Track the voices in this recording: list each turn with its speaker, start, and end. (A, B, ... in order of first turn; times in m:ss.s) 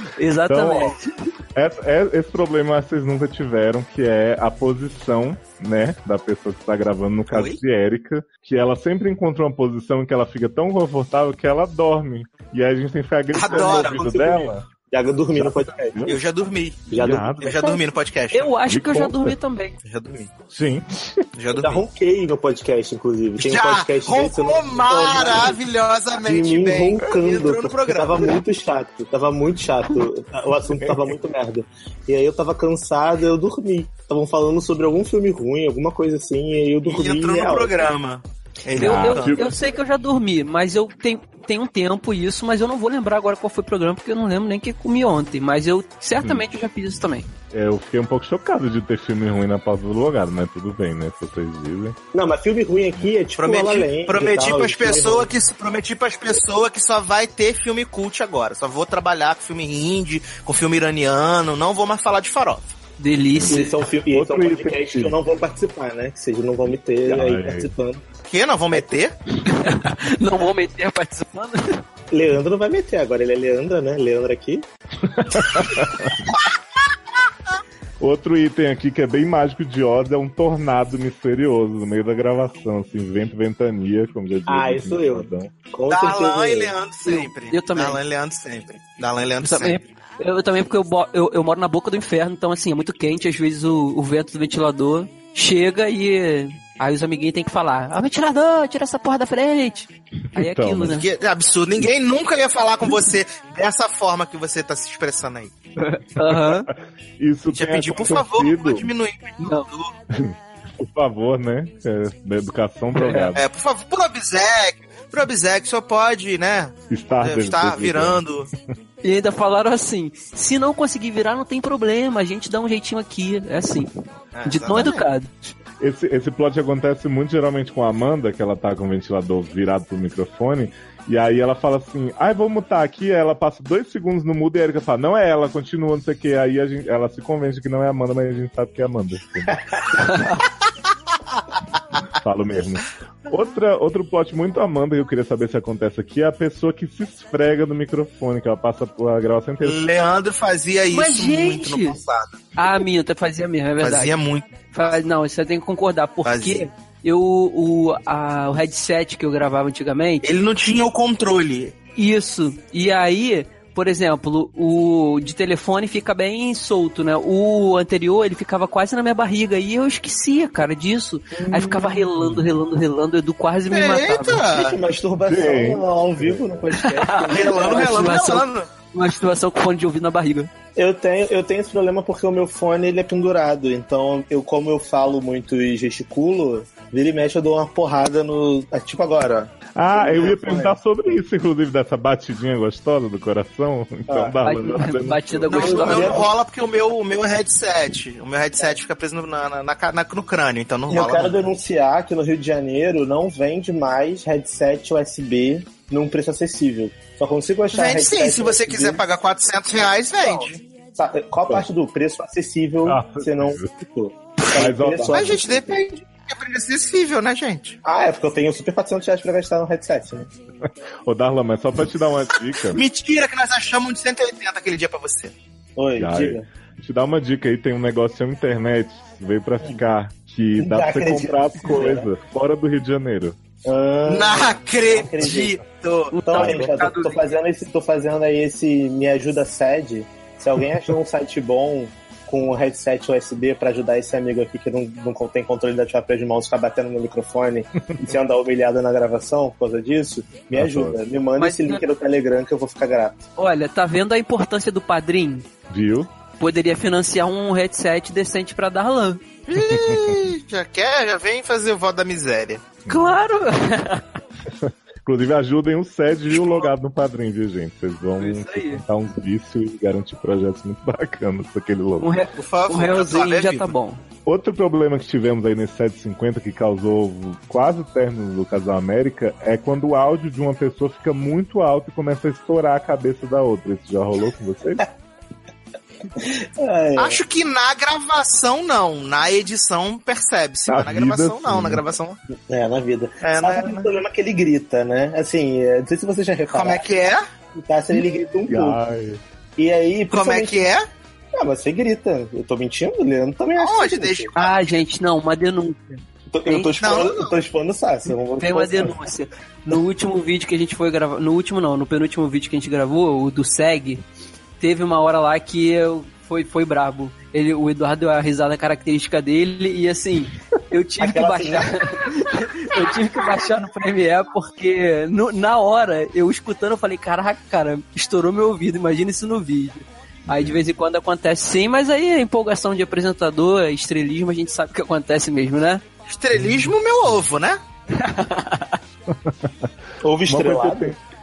0:00.2-0:01.0 A
0:00.5-0:00.9 B
0:01.5-0:14.6 B
0:07.3-0:07.6 C
0:13.3-0:14.1 C
0:13.4-0:16.2 D
0:15.4-0:16.2 B
0:16.1-0:16.9 C
0:16.9-0:17.6 D
0:17.0-0:17.6 B
0:17.4-0:18.5 C
0:18.3-0:19.8 A
0:18.6-0:19.3 B
0:19.8-0:20.3 C
0:20.5-0:21.2 B
0:21.4-0:21.8 C
0:21.6-0:25.6 D
0:23.4-0:28.4 C
0:26.2-0:37.9 D
0:36.8-0:39.5 C
0:38.7-0:39.5 B
0:38.7-0:47.3 A
0:46.2-0:46.4 B
0:47.5-0:52.0 B
0:52.1-0:55.3 D
0:53.4-1:02.7 C
1:03.0-1:03.8 A
1:03.3-1:05.2 B
1:03.5-1:08.0 D
1:07.1-1:07.7 B
1:08.2-1:09.1 C
1:09.4-1:11.8 A
1:12.1-1:14.6 D
1:15.0-1:16.2 B
1:18.0-1:25.5 B
1:24.5-1:26.7 D
1:25.9-1:29.8 C
1:27.0-1:28.0 A
1:29.4-1:41.1 A
1:40.3-1:41.0 B
1:40.9-1:45.5 C
1:45.8-1:46.7 A
1:46.5-1:48.9 B
1:47.5-1:50.0 C
1:49.4-1:49.7 A
1:50.1-1:53.4 B
1:52.9-1:53.3 A
1:53.3-1:58.5 C
1:56.9-1:58.2 B
1:59.0-2:03.9 A
2:04.3-2:05.1 C
2:04.4-2:05.3 A
2:05.8-2:19.6 B
2:20.0-2:20.4 A
2:22.2-2:29.8 B
2:29.6-2:32.5 C
2:30.9-2:32.0 A
2:32.6-2:40.2 A
2:33.8-2:34.9 C
2:36.2-2:36.7 C
2:40.2-2:41.8 C
2:41.9-2:54.5 A
2:51.3-2:52.4 B
2:53.7-2:54.8 C
2:54.5-2:58.1 D
2:55.3-2:56.5 B
2:56.8-3:00.5 A
2:57.3-2:58.7 C
3:00.8-3:10.8 D
3:09.7-3:15.7 B
3:14.1-3:14.4 D
3:14.4-3:16.2 A
3:15.5-3:16.3 D
3:15.5-3:21.4 C
3:20.9-3:29.0 D
3:27.7-3:30.6 C
3:30.2-3:35.8 D
3:32.8-3:33.8 B
3:34.5-3:35.4 B
3:35.1-3:37.8 C
3:37.8-3:40.3 D
3:41.0-3:42.8 B
3:42.7-3:45.3 C
3:45.8-3:46.5 D
3:46.0-3:53.4 B
3:50.6-3:52.1 D
3:53.6-3:55.6 D
3:54.1-3:56.2 C
3:56.1-3:57.3 A
3:56.2-4:13.3 D
3:56.4-3:56.7 B
4:10.5-4:11.0 B
4:11.4-4:11.8 A
4:13.4-4:15.5 A
4:15.7-4:16.1 B
4:16.4-4:19.2 A
4:19.5-4:22.8 C
4:19.6-4:20.2 B
4:22.9-4:23.2 B
4:22.9-4:24.0 A
4:24.6-4:32.2 B
4:28.2-4:28.8 A
4:32.0-4:34.0 A
4:32.3-4:33.7 C
4:34.2-4:44.8 B
4:46.2-4:47.2 D
4:47.0-4:52.2 C
4:50.7-4:51.8 B
4:52.5-4:56.8 D
4:53.2-4:53.9 C
4:56.5-4:57.2 C
4:57.5-4:58.8 D
4:58.5-4:59.2 B
4:59.6-5:00.7 D
5:00.1-5:00.8 C
5:01.3-5:04.3 D
5:03.6-5:04.6 C
5:04.3-5:06.8 A
5:06.3-5:09.0 D
5:06.8-5:07.3 C
5:08.4-5:14.0 A
5:14.6-5:35.8 A
5:21.0-5:21.7 D
5:30.3-5:30.6 B
5:36.1-5:37.6 C
5:36.3-5:36.7 B
5:38.0-5:38.8 A
5:39.1-5:39.7 B
5:40.0-5:41.0 D
5:40.2-5:41.0 B